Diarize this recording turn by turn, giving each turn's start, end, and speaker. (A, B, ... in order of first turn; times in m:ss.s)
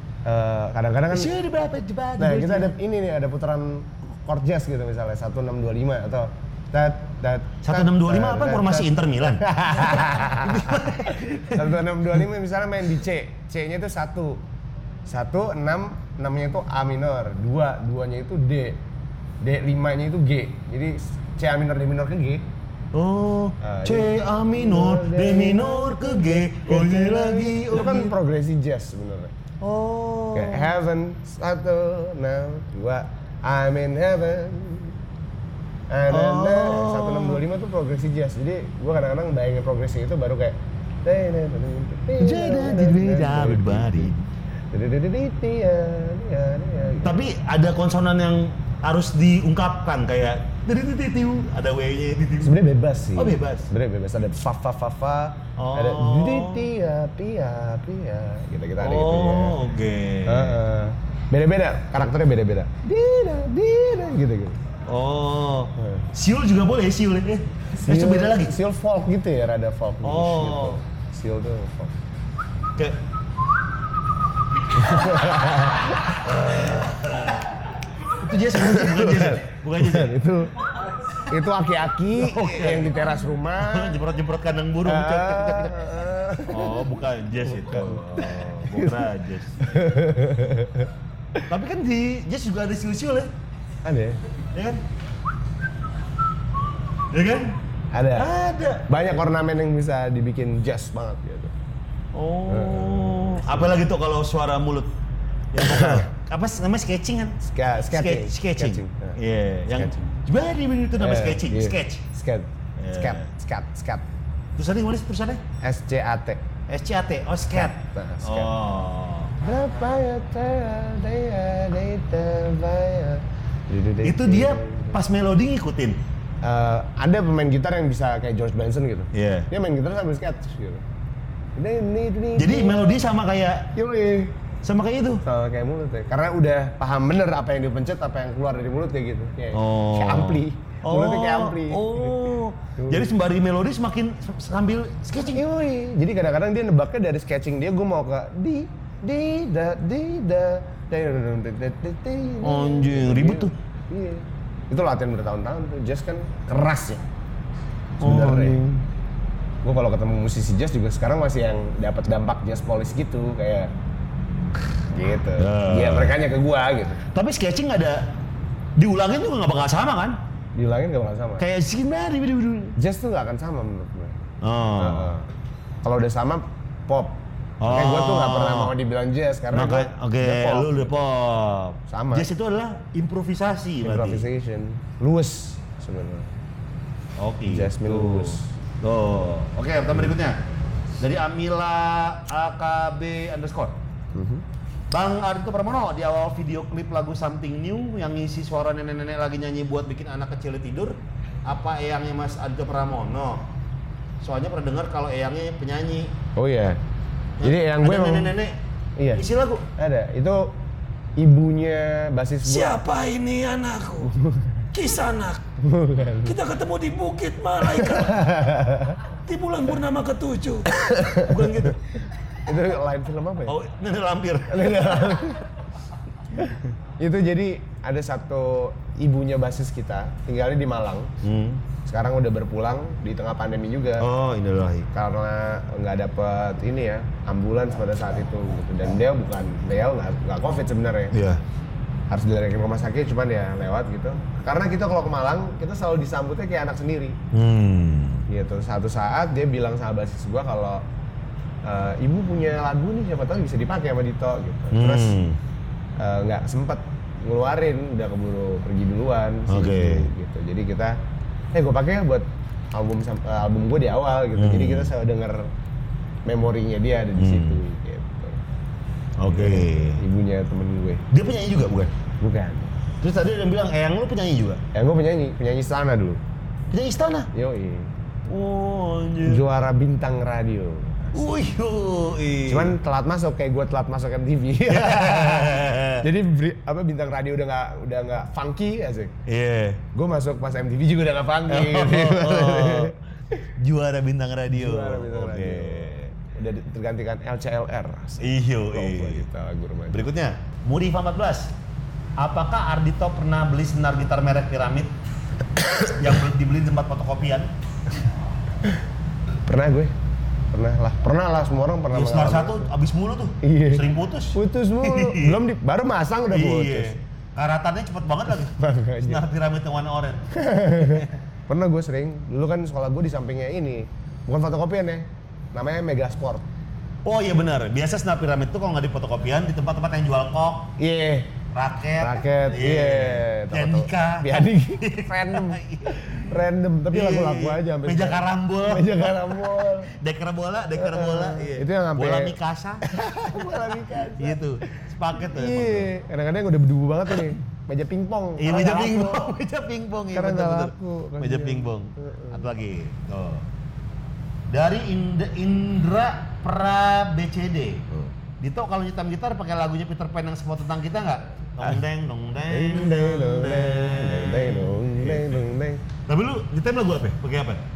0:00.2-0:01.3 A
0:01.1-0:02.7 B
0:02.2-0:14.4 A
0:07.6-0:11.8 B
0:15.1-0:18.8 A
0:19.4-0:22.4 A
0:22.9-0:28.1 B
0:23.6-0:29.3 A
0:29.6-0:30.7 B
0:30.3-0:35.0 A
0:35.9-0:44.1 A
0:36.1-0:37.4 B
0:42.2-0:44.2 B
0:44.7-0:47.3 A
0:47.0-0:52.6 B
0:52.4-0:59.6 A
0:53.1-0:53.7 B
0:55.6-0:56.7 B
0:58.8-1:00.6 B
1:00.2-1:04.6 A
1:04.9-1:08.5 B
1:05.8-1:06.1 A
1:07.7-1:12.0 A
1:10.0-1:10.8 B
1:14.7-1:16.8 A
1:14.7-1:17.4 B
1:18.2-1:20.2 B
1:18.5-1:20.5 A
1:21.2-1:24.0 A
1:22.1-1:25.8 B
1:24.8-1:31.4 A
1:26.4-1:30.0 B
1:31.5-1:33.3 B
1:33.8-1:34.2 A
1:34.5-1:34.8 B
1:37.1-1:37.6 B
1:37.9-1:41.5 A
1:38.1-1:38.9 B
1:42.1-1:44.9 B
1:42.5-1:43.8 A
1:45.5-1:47.4 B
1:45.6-1:46.1 A
1:47.4-1:50.0 A
1:47.9-1:52.0 B
1:51.0-1:54.0 A
1:52.8-1:53.3 B
1:54.5-1:55.4 B
1:55.6-1:56.4 A
1:56.7-1:59.4 B
1:57.5-1:58.5 A
1:59.4-2:05.0 A
2:04.0-2:06.0 B
2:06.4-2:10.8 A
2:09.1-2:09.5 B
2:11.6-2:12.9 A
2:12.4-2:13.7 B
2:13.7-2:14.4 A
2:14.6-2:15.2 B
2:15.2-2:22.2 A
2:19.5-2:25.4 B
2:22.8-2:23.1 A
2:25.2-2:37.0 A
2:32.4-2:33.5 B
2:38.0-2:38.6 A
2:38.0-2:38.9 B
2:39.6-2:43.7 A
2:44.9-2:47.0 A
2:45.4-2:46.2 B
2:47.1-2:48.1 B
2:48.8-2:50.2 B
2:50.5-2:51.4 A
2:51.4-2:52.8 B
2:52.8-2:54.2 A
2:54.4-2:55.2 B
2:54.8-2:55.3 A
2:55.8-3:00.9 A
2:57.6-2:58.7 B
2:59.5-3:04.2 B
3:01.9-3:02.3 A
3:03.8-3:06.3 A
3:07.2-3:10.4 B
3:07.5-3:08.5 A
3:11.0-3:13.8 B
3:14.1-3:14.4 A
3:14.9-3:23.5 B
3:24.2-3:26.2 B
3:26.4-3:26.8 A
3:27.4-3:28.6 B
3:27.4-3:28.4 A
3:29.0-3:29.2 A
3:29.1-3:29.6 B
3:29.8-3:30.6 A
3:31.2-3:32.8 A
3:32.5-3:34.1 C
3:34.0-3:34.6 A
3:34.7-3:35.4 B
3:35.6-3:36.4 A
3:36.3-3:38.2 C
3:37.5-3:38.1 B
3:37.6-3:39.0 A
3:39.3-3:41.8 B
3:39.3-3:40.6 C
3:40.7-3:41.8 A
3:42.4-3:43.6 A
3:43.5-3:45.2 B
3:44.5-3:45.5 A
3:46.4-3:51.1 A
3:51.2-3:51.6 B
3:51.8-3:54.1 A
3:54.0-3:54.9 B
3:54.9-4:01.2 A
4:01.1-4:01.4 B
4:02.1-4:07.2 A
4:07.3-4:08.2 B
4:08.3-4:10.8 A
4:11.6-4:15.2 A
4:14.7-4:15.4 B
4:16.0-4:21.0 A
4:19.5-4:20.1 B
4:21.5-4:25.5 A
4:24.3-4:24.9 B
4:26.2-4:28.4 A
4:27.1-4:27.6 B
4:29.2-4:30.0 B
4:29.2-4:31.1 A
4:31.1-4:31.9 B
4:32.2-4:32.7 A
4:33.0-4:34.6 B
4:34.7-4:36.2 A
4:36.7-4:37.3 B
4:37.3-4:37.9 A
4:38.2-4:39.4 B
4:39.2-4:41.3 A
4:41.1-4:42.8 B
4:42.5-4:49.2 A
4:44.7-4:46.1 B
4:49.2-4:49.8 B
4:49.9-4:53.0 A
4:51.5-4:52.9 B
4:53.6-4:56.0 B
4:54.5-5:00.0 A
4:58.2-4:59.2 B
4:59.9-5:01.5 B
5:02.2-5:04.9 B
5:05.9-5:07.5 B
5:09.5-5:09.9 A
5:10.5-5:12.7 A
5:11.9-5:15.4 B
5:13.4-5:17.0 A
5:16.3-5:21.1 B
5:18.5-5:19.2 A
5:20.3-5:26.4 A
5:27.0-5:30.7 B
5:30.8-5:31.3 A
5:31.5-5:42.9 B
5:32.0-5:39.9 A
5:40.7-5:44.4 A
5:43.9-5:45.9 B
5:45.2-5:49.3 A
5:48.4-5:53.5 B
5:50.1-5:52.4 A
5:54.5-5:57.8 B
5:58.4-6:05.4 B
6:02.5-6:05.8 A
6:06.0-6:07.6 B